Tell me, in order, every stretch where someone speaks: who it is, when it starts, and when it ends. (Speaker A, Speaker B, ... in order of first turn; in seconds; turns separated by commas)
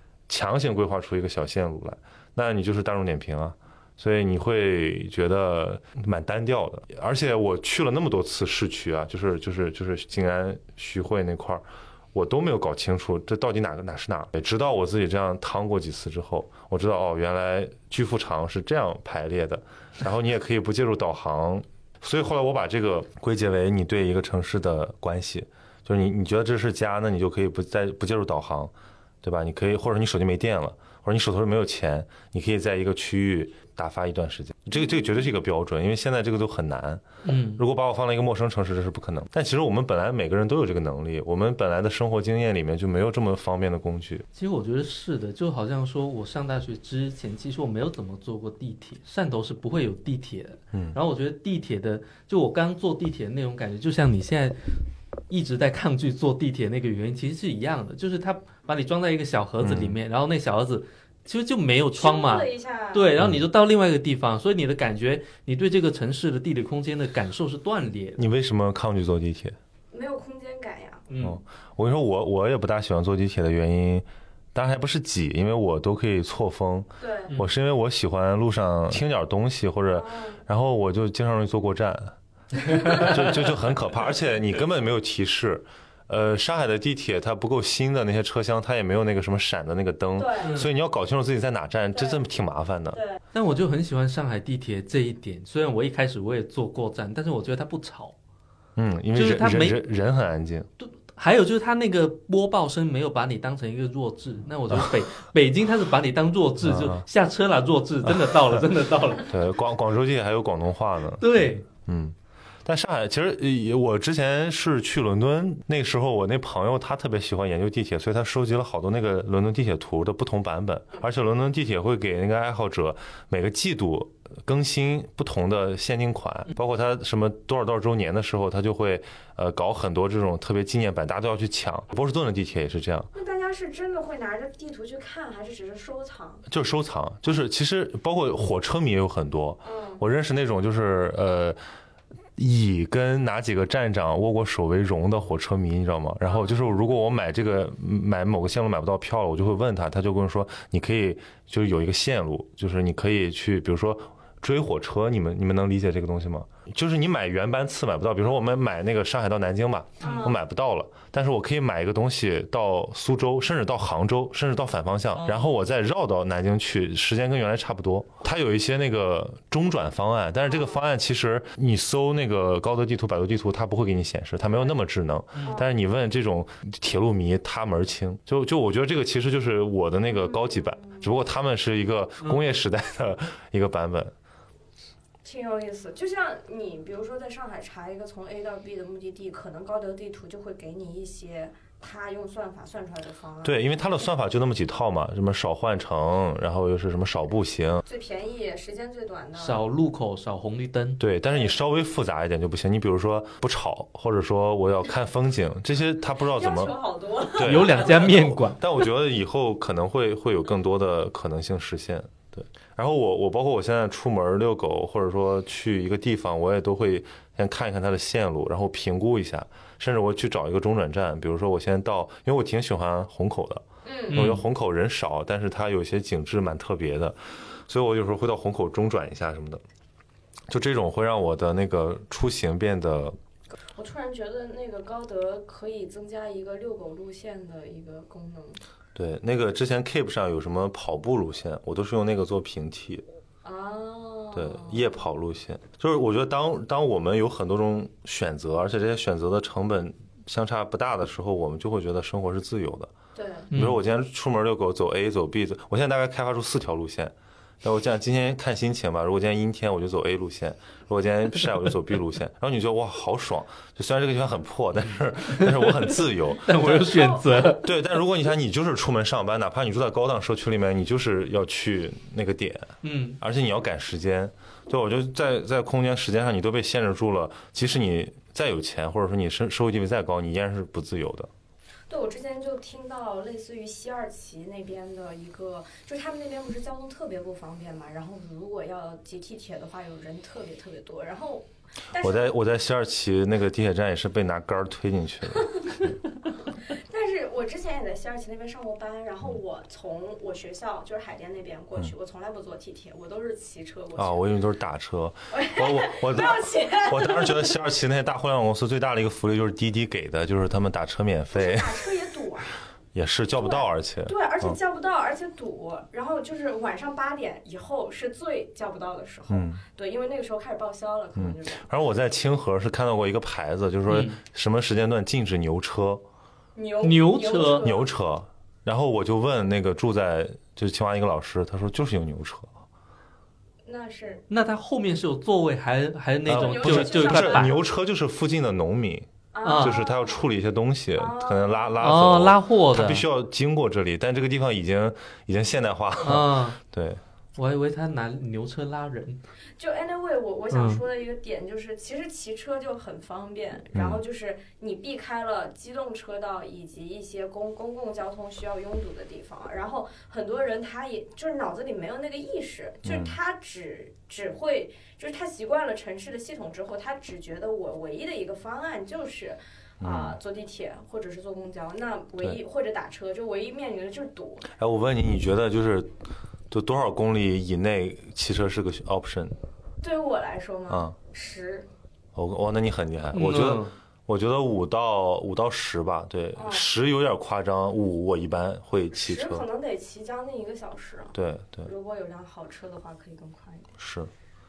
Speaker A: 0.3-44.2, Speaker B: 37.2-37.6, Speaker B: 44.3-54.8, Speaker A: 50.7-51.0, Speaker B: 55.3-68.2, Speaker A: 59.6-60.0, Speaker C: 61.9-63.1, Speaker A: 63.2-63.4, Speaker A: 68.2-69.6, Speaker C: 69.9-71.0, Speaker B: 71.1-71.4, Speaker A: 71.2-82.2, Speaker C: 77.0-77.3, Speaker C: 79.9-80.4, Speaker C: 82.8-83.0, Speaker A: 82.9-93.0, Speaker C: 90.2-90.5, Speaker B: 90.4-90.7, Speaker C: 91.9-92.2, Speaker C: 92.9-93.2, Speaker B: 93.3-98.1, Speaker A: 98.8-100.7, Speaker B: 99.1-99.8, Speaker B: 100.8-109.3, Speaker A: 106.6-107.0, Speaker A: 108.0-108.6, Speaker A: 109.2-133.1, Speaker B: 111.2-111.7, Speaker C: 133.1-136.4, Speaker A: 136.4-141.6, Speaker C: 139.6-140.0, Speaker A: 142.3-184.1, Speaker C: 146.2-146.6, Speaker C: 160.0-160.4, Speaker C: 170.5-170.8, Speaker B: 175.3-175.6, Speaker C: 180.1-181.1, Speaker C: 185.2-193.6, Speaker A: 193.4-197.8, Speaker C: 197.8-199.6, Speaker B: 199.3-201.0, Speaker A: 201.0-206.7, Speaker C: 201.3-201.6, Speaker C: 206.2-207.7, Speaker A: 207.3-229.6, Speaker B: 207.4-208.6, Speaker C: 223.8-224.2, Speaker B: 224.1-224.4, Speaker A: 230.5-233.2, Speaker C: 233.7-238.6, Speaker A: 238.9-243.0, Speaker C: 243.4-244.9, Speaker A: 244.3-252.9, Speaker C: 253.1-253.5, Speaker B: 253.5-253.8, Speaker A: 253.5-267.1, Speaker B: 265.4-267.6, Speaker A: 267.6-281.3, Speaker B: 272.8-273.2, Speaker C: 281.9-292.3, Speaker A: 292.0-295.7, Speaker C: 296.7-304.2, Speaker A: 303.9-311.9, Speaker C: 305.3-307.5, Speaker C: 311.3-312.5, Speaker A: 312.9-314.6, Speaker C: 313.4-321.7, Speaker A: 319.3-319.6, Speaker A: 321.1-326.0, Speaker B: 323.9-324.2, Speaker C: 326.6-327.9, Speaker B: 326.8-327.6, Speaker A: 327.6-332.5, Speaker C: 333.6-334.2, Speaker B: 334.3-337.5, Speaker A: 336.2-347.0, Speaker C: 336.3-337.6, Speaker C: 339.3-340.2, Speaker B: 339.4-339.8, Speaker C: 340.9-341.7, Speaker B: 341.8-343.0, Speaker B: 346.0-346.6, Speaker B: 347.4-349.2, Speaker C: 349.6-374.5, Speaker B: 350.5-350.8, Speaker A: 353.7-354.0, Speaker A: 362.8-363.1, Speaker A: 369.8-370.2, Speaker A: 374.6-375.9, Speaker A: 376.5-379.4, Speaker C: 379.8-381.7, Speaker A: 380.7-380.9, Speaker A: 382.1-389.4, Speaker B: 383.1-383.7, Speaker C: 386.3-386.7, Speaker C: 388.9-393.7, Speaker A: 391.1-391.7, Speaker A: 393.8-394.1